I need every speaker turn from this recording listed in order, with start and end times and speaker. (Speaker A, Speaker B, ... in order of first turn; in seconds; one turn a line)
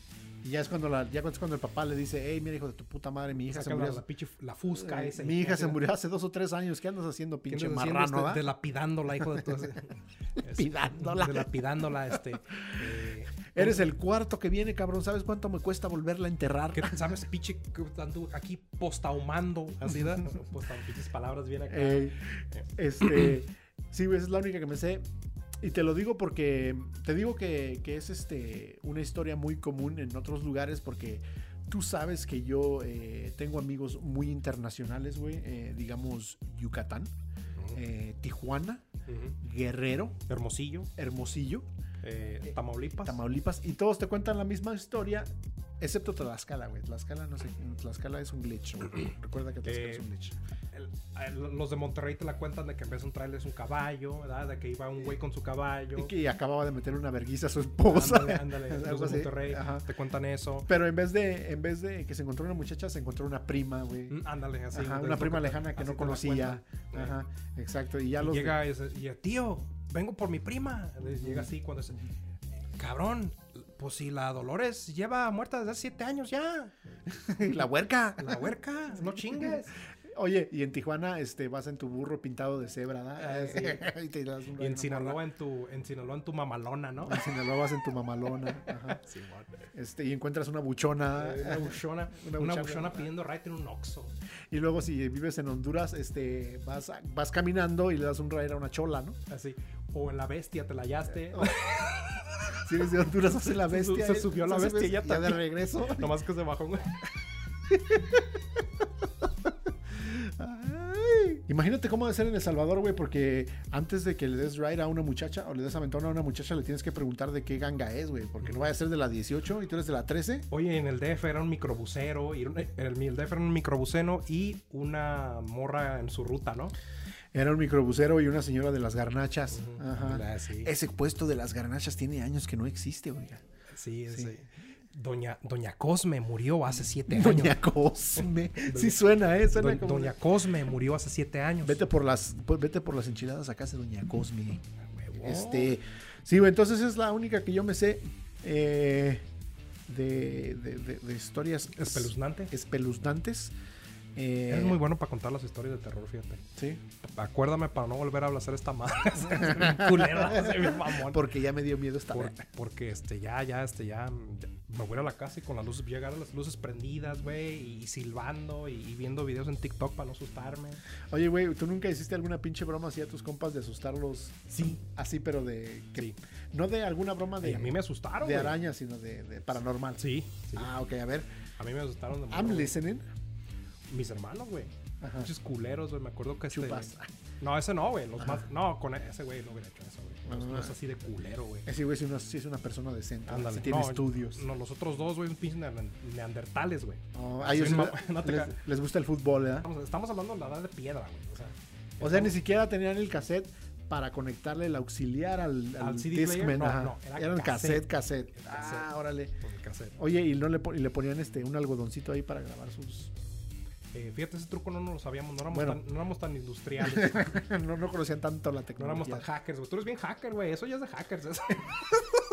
Speaker A: 0.4-4.0
Speaker B: 3.5-5.8
Speaker A: 4.7-8.5
Speaker B: 7.5-13.9
Speaker A: 9.2-9.8
Speaker A: 10.4-11.5
Speaker A: 13.5-17.2
Speaker B: 16.7-22.7
Speaker A: 19.9-20.3
Speaker A: 21.7-25.0
Speaker A: 25.6-37.1
Speaker A: 37.7-38.8
Speaker B: 39.1-39.4
Speaker A: 39.4-40.2
Speaker B: 40.3-40.9
Speaker A: 41.0-41.7
Speaker B: 42.0-43.2
Speaker A: 43.0-50.4
Speaker B: 49.6-50.0
Speaker B: 50.7-56.1
Speaker A: 56.0-59.9
Speaker B: 57.9-60.7
Speaker A: 60.7-64.2
Speaker B: 64.1-67.2
Speaker A: 64.7-68.6
Speaker B: 68.2-72.1
Speaker A: 71.1-71.5
Speaker B: 72.8-77.3
Speaker A: 77.1-85.2
Speaker B: 78.2-79.7
Speaker B: 83.2-83.9
Speaker B: 84.6-87.3
Speaker A: 87.0-89.0
Speaker B: 88.9-89.5
Speaker A: 89.7-93.1
Speaker B: 91.1-94.1
Speaker A: 94.5-99.2
Speaker B: 99.3-102.5
Speaker A: 101.3-101.9
Speaker A: 102.5-106.1
Speaker B: 103.5-107.0
Speaker A: 107.7-108.3
Speaker A: 109.2-120.5
Speaker B: 118.4-118.7
Speaker B: 120.5-126.7
Speaker A: 127.3-133.4
Speaker B: 129.5-130.7
Speaker B: 133.7-137.6
Speaker A: 134.1-134.3
Speaker A: 137.1-140.2
Speaker B: 138.2-141.8
Speaker A: 141.6-144.6
Speaker B: 144.9-145.7
Speaker A: 145.2-149.2
Speaker A: 149.9-153.5
Speaker B: 151.8-152.5
Speaker A: 154.2-154.8
Speaker B: 154.5-156.4
Speaker A: 156.6-156.8
Speaker B: 157.0-161.3
Speaker A: 159.2-162.4
Speaker B: 162.1-170.8
Speaker A: 171.1-181.3
Speaker B: 177.4-178.6
Speaker B: 180.0-180.7
Speaker B: 181.6-182.7
Speaker A: 182.3-183.1
Speaker B: 183.9-191.7
Speaker A: 185.0-185.3
Speaker A: 186.5-187.1
Speaker A: 188.2-188.4
Speaker A: 190.3-190.8
Speaker A: 191.7-194.4
Speaker B: 193.3-198.6
Speaker A: 197.1-199.7
Speaker B: 199.6-202.4
Speaker A: 202.0-209.3
Speaker B: 205.8-208.9
Speaker B: 209.4-210.0
Speaker A: 210.0-213.1
Speaker B: 213.9-217.4
Speaker A: 215.5-215.8
Speaker A: 216.8-219.2
Speaker B: 218.8-222.0